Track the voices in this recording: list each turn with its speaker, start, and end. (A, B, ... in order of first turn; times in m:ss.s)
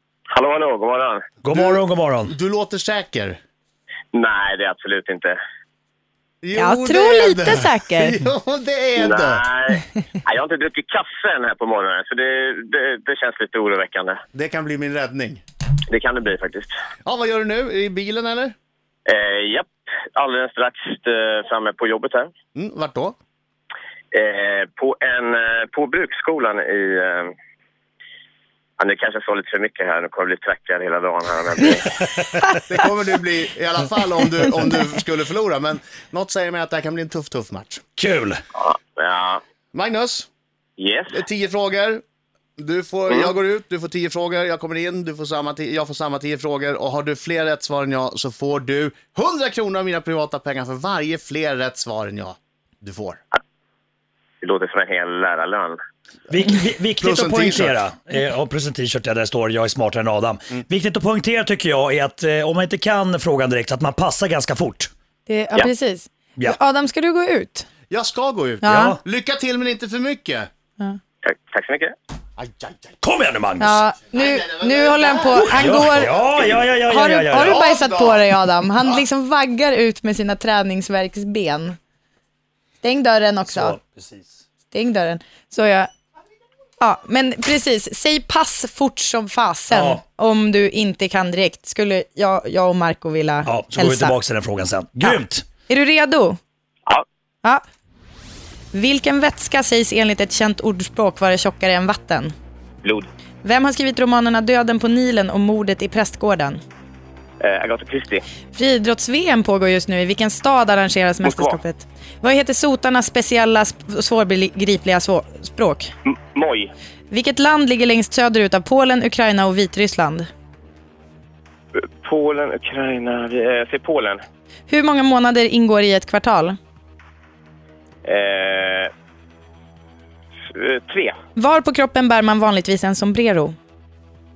0:00.3-0:01.2 A
0:01.4-0:02.3 B
0:01.5-0:03.4 C
0:04.1-0:05.4 A
0:06.4-0:09.4 C
0:06.6-0:08.2 D
0:09.0-0:14.2 A
0:14.3-0:15.4 C
0:15.9-0:16.7 A
0:17.0-0:18.5 C
0:19.1-0:22.3 A
0:22.6-0:23.2 C
0:24.1-0:27.3 A
0:28.8-0:31.9 A
0:32.2-0:32.5 B
0:32.7-0:37.8 C
0:38.0-0:38.4 B
0:38.6-0:39.4 A
0:39.7-0:40.3 C
0:40.8-0:41.2 A
0:41.1-0:42.0 C
0:42.6-0:53.2 C
0:54.4-0:55.8 A
0:56.3-1:04.9 B
0:57.0-0:57.8 C
1:05.3-1:07.7 D
1:07.9-1:10.5 C
1:08.6-1:09.0 D
1:08.6-1:09.0 B
1:11.2-1:11.9 A
1:12.4-1:12.9 C
1:13.0-1:13.8 B
1:13.6-1:16.2 D
1:14.1-1:16.6 C
1:15.4-1:17.6 B
1:16.9-1:21.8 D
1:17.4-1:18.3 C
1:22.8-1:23.8 D
1:23.4-1:24.4 B
1:24.7-1:25.9 D
1:26.8-1:34.1 D
1:29.7-1:30.0 B
1:33.4-1:35.5 B
1:35.7-1:36.4 D
1:38.7-1:42.3 D
1:43.4-1:46.6 D
1:47.4-1:48.2 A
1:48.5-1:55.9 D
1:51.2-1:51.6 A
1:56.1-1:56.7 A
1:57.1-2:00.3 D
2:01.8-2:04.2 A
2:04.7-2:06.6 D
2:08.0-2:08.9 A
2:10.5-2:11.2 A
2:11.4-2:13.6 D